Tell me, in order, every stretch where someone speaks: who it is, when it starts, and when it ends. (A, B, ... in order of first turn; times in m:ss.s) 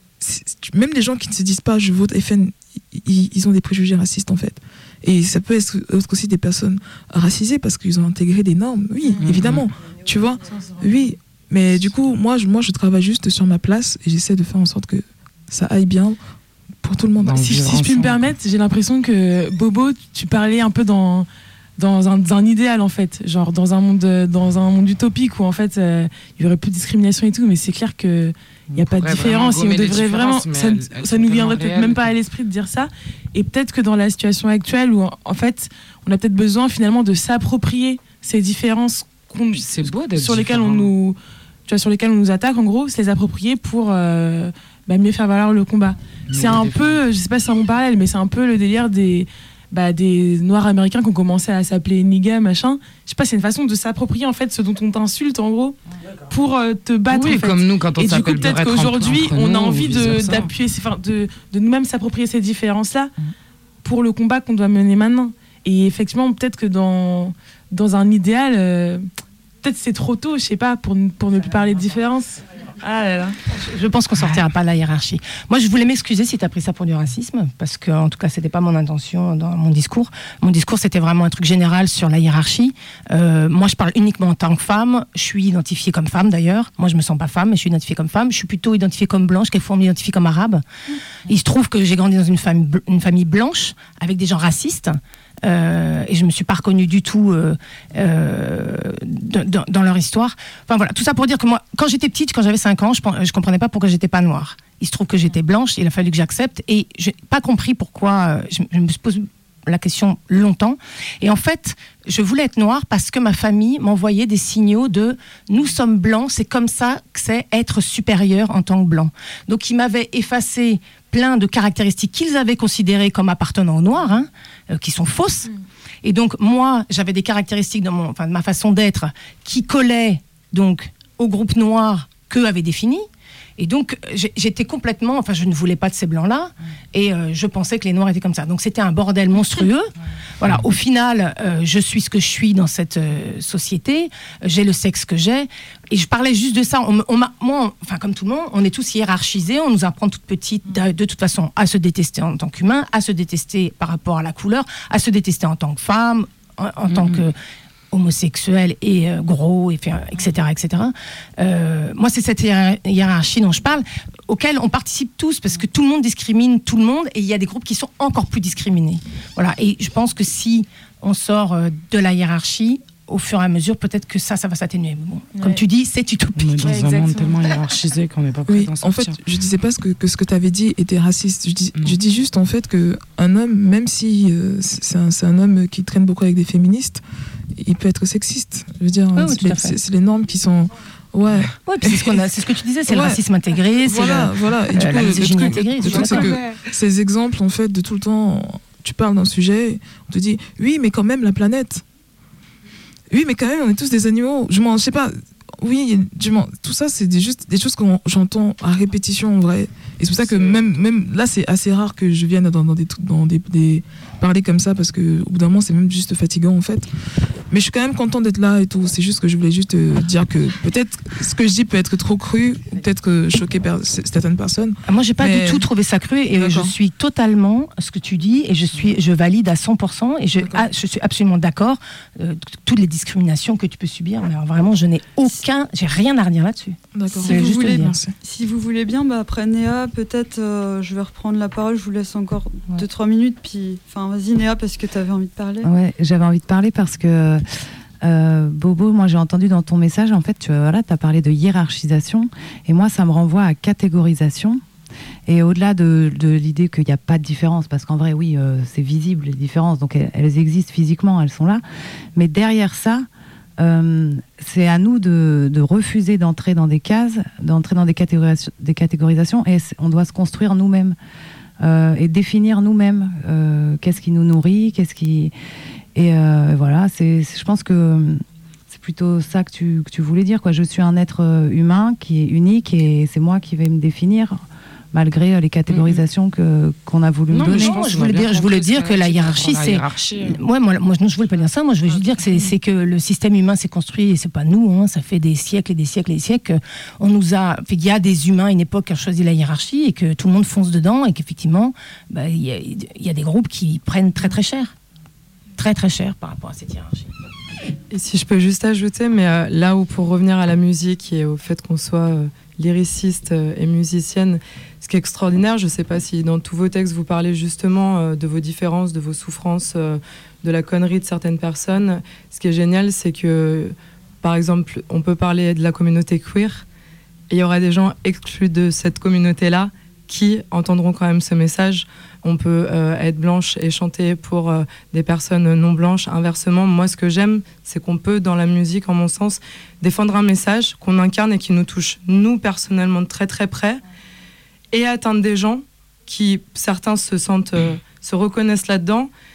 0:00.2-0:16.2 A
0:09.0-0:09.3 B
0:09.2-0:09.6 C
0:16.8-0:17.6 A
0:17.2-0:18.3 C
0:17.4-0:21.3 B
0:21.8-0:55.8 B
0:28.7-0:32.1 C
0:39.5-0:40.9 C
0:46.3-0:47.0 C
0:56.3-1:03.1 B
0:57.1-1:00.5 C
1:03.8-1:09.0 B
1:09.6-1:12.4 B
1:13.0-1:30.6 D
1:31.3-2:05.5 D
2:06.0-2:13.1 D
2:13.6-2:37.4 D
2:36.9-2:37.2 C
2:37.9-2:57.1 D
2:56.4-2:59.2 C
2:56.7-2:57.4 B
2:58.5-3:07.0 A
3:07.6-3:12.2 A
3:09.1-3:09.8 D
3:11.6-3:16.6 D
3:12.9-3:13.2 A
3:13.8-3:21.8 A
3:23.1-3:36.9 A
3:37.5-3:45.7 A
3:44.8-3:58.0 D
3:46.3-3:46.7 A
3:50.4-3:50.6 A
3:56.9-3:58.2 A
3:57.2-4:05.7 E
4:05.6-4:07.4 F
4:08.0-4:14.6 F
4:15.3-4:21.6 F
4:22.2-4:23.1 F
4:23.6-4:31.0 F
4:31.6-4:35.3 F
4:35.9-4:44.4 F
4:44.9-4:47.9 F
4:45.7-4:46.0 C
4:47.3-4:50.4 C
4:47.4-5:04.7 D
5:05.6-5:07.1 D
5:07.9-5:26.6 G
5:27.3-5:43.8 G
5:44.7-5:49.1 G